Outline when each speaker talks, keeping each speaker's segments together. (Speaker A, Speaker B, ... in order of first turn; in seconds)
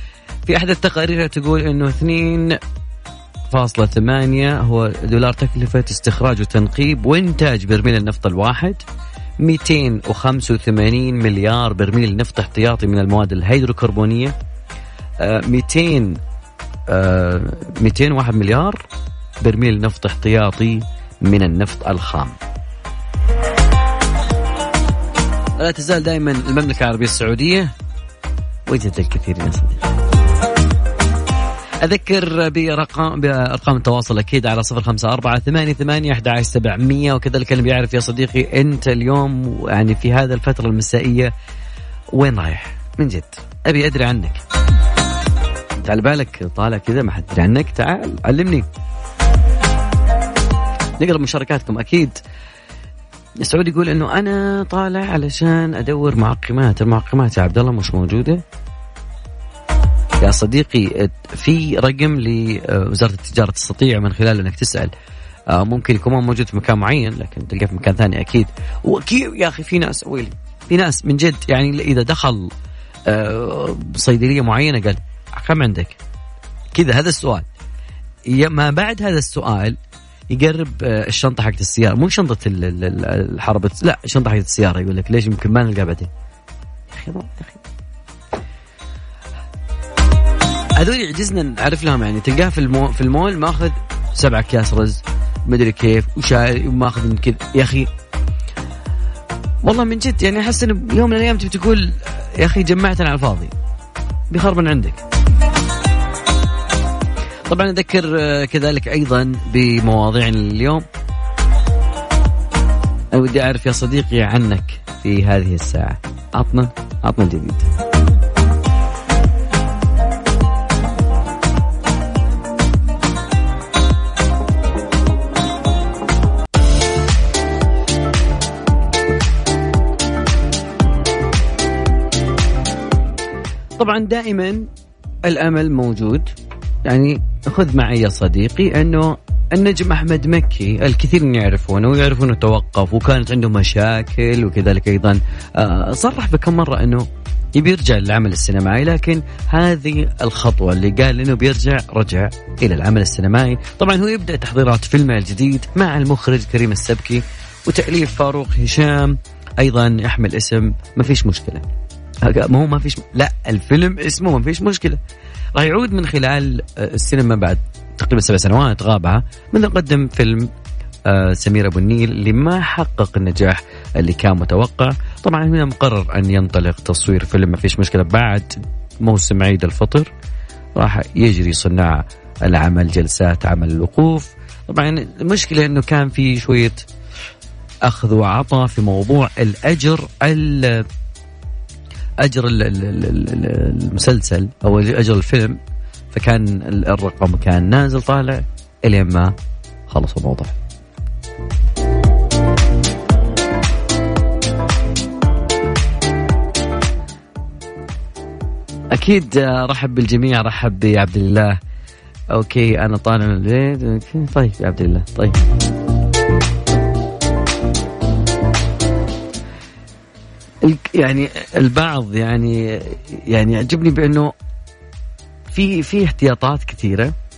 Speaker A: 0.5-2.6, 3.5-8.8, 9.4-14.3, 15.2-16.2, 16.9-18.8, 19.4-22.4, 25.6-27.7, 28.7-29.9, 31.8-41.3, 42.1-44.4, 45.8-48.7, 51.0-52.2, 53.4-58.4, 60.2-64.9, 65.5-72.5, 73.1-76.0, 76.7-77.5, 78.3-79.8, 80.3-86.1, 86.9-87.6, 90.8-97.9, 99.6-103.5, 104.3-105.0, 107.5-110.9, 113.1-117.7, 133.8-134.7, 135.2-136.3, 136.8-161.7, 162.2-165.0, 165.6-170.5, 171.1-180.1, 180.8-186.8, 187.8-190.8, 192.2-195.6, 196.1-199.3, 199.9-200.6, 208.9-211.6, 212.3-215.4, 220.6-224.3, 225.5-227.1